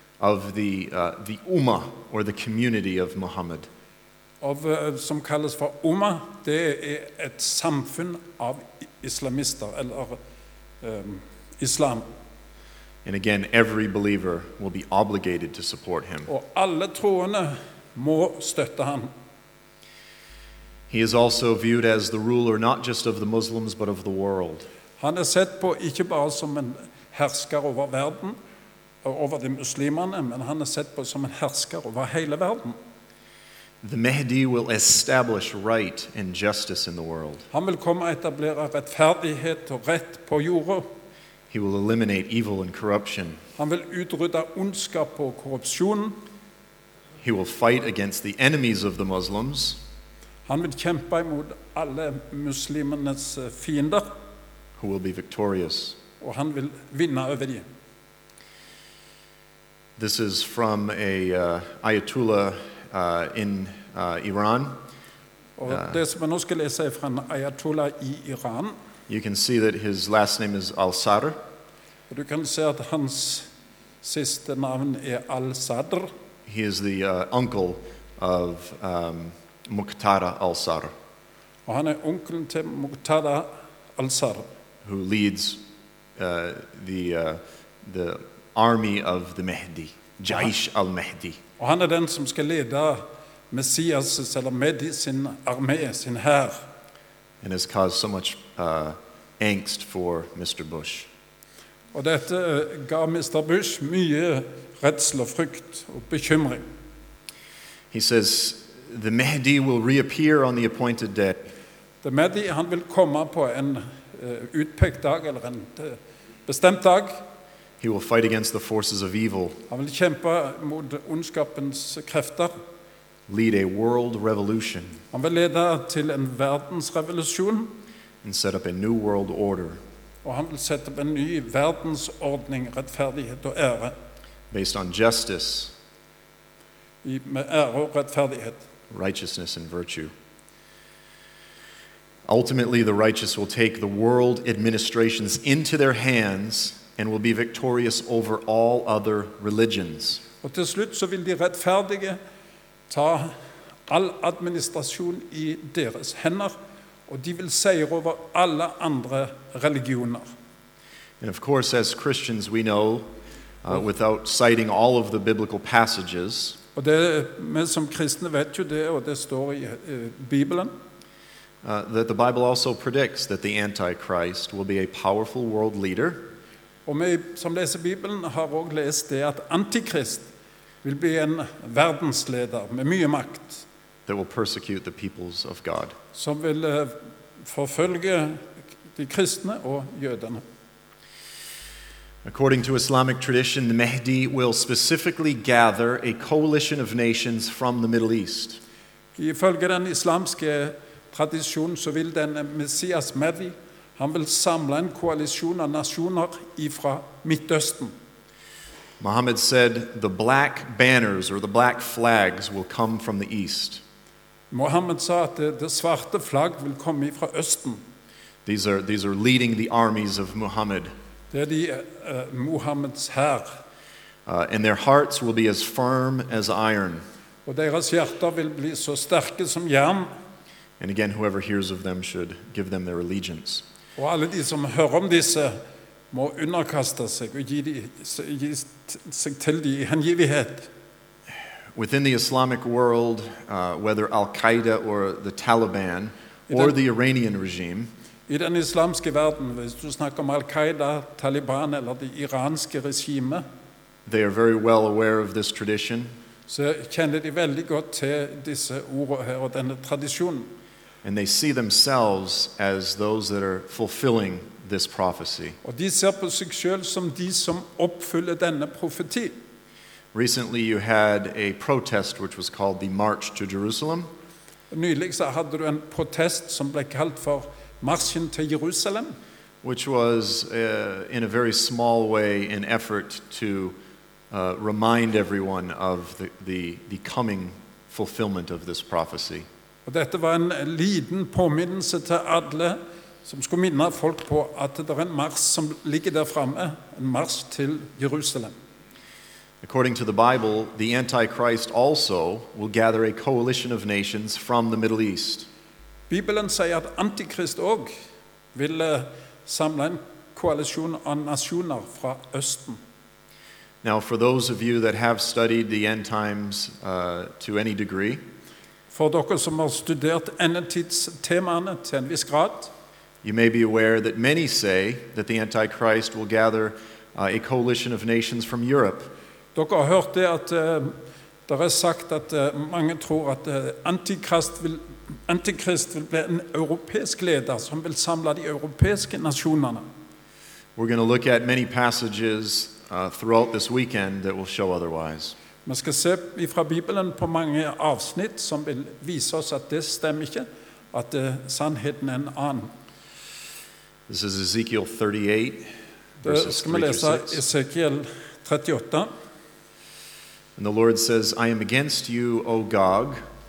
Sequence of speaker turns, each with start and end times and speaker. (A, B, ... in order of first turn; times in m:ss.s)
0:00.2-0:03.7 A
0:04.4-0:10.2 B
0:10.8-0:12.1 B
0:13.0-0:16.3 A
0:16.3-0:19.1 B
0:20.9-0:24.7 A
0:25.0-0:28.4 B
0:29.0-0:32.8 B
0:33.8-0:37.5 A
0:37.5-0:40.9 B
0:41.5-0:43.4 A
0:43.6-0:46.2 B
0:47.2-0:49.8 A
0:50.5-0:54.1 B
0:54.8-0:56.0 A
0:56.2-0:57.6 B
1:00.0-1:04.8 A
1:05.6-1:08.8 B
1:09.1-1:11.4 A
1:12.1-1:13.5 B
1:14.0-1:16.1 B
1:16.5-1:20.9 A
1:21.7-1:24.5 B
1:24.8-1:25.6 A
1:26.2-1:31.4 A
1:31.6-1:36.6 B
1:37.4-1:41.1 A
1:41.9-1:46.6 B
1:47.9-1:51.5 A
1:52.0-1:57.2 B
1:57.8-1:59.6 A
1:59.7-2:02.5 B
2:03.3-2:05.0 A
2:05.1-2:07.8 B
2:08.2-2:09.8 A
2:10.2-2:14.0 B
2:14.5-2:15.7 A
2:17.0-2:18.6 B
2:18.9-2:20.1 A
2:22.3-2:30.2 A
2:30.4-2:32.2 B
2:32.9-2:33.4 B
2:33.9-2:36.6 B
2:37.1-2:40.3 B
2:41.2-2:43.1 A
2:43.6-2:46.6 A
2:46.8-2:50.7 B
2:51.6-2:56.3 A
2:56.9-3:00.3 B
3:00.8-3:03.6 B
3:04.1-3:06.0 A
3:06.1-3:10.4 B
3:12.2-3:18.6 A
3:19.2-3:27.9 B
3:29.0-3:33.8 A
3:34.5-3:37.8 B
3:38.5-3:40.9 A
3:41.3-3:43.6 B
3:44.3-3:47.0 A
3:47.5-3:50.1 B
3:50.8-3:53.6 A
3:54.0-3:55.6 B
3:56.1-4:00.7 B
4:01.8-4:07.9 A
4:06.5-4:06.8 B
4:08.3-4:13.4 B
4:14.1-4:16.1 A
4:16.5-4:20.5 B
4:21.0-4:25.6 A
4:25.6-4:29.4 B
4:30.1-4:34.1 A
4:34.7-4:39.2 B
4:39.6-4:43.8 A
4:44.3-4:49.5 A
4:49.9-4:58.6 B
4:59.6-5:05.5 A
5:06.1-5:07.9 B
5:08.5-5:12.8 B
5:13.8-5:18.2 A
5:18.9-5:22.7 B
5:23.2-5:29.1 A
5:29.6-5:31.0 B
5:31.5-5:39.8 B
5:40.8-5:45.4 A
5:45.6-5:52.7 B
5:54.1-5:55.7 A
5:56.2-5:57.4 A
5:56.2-5:59.1 B
6:00.6-6:03.2 A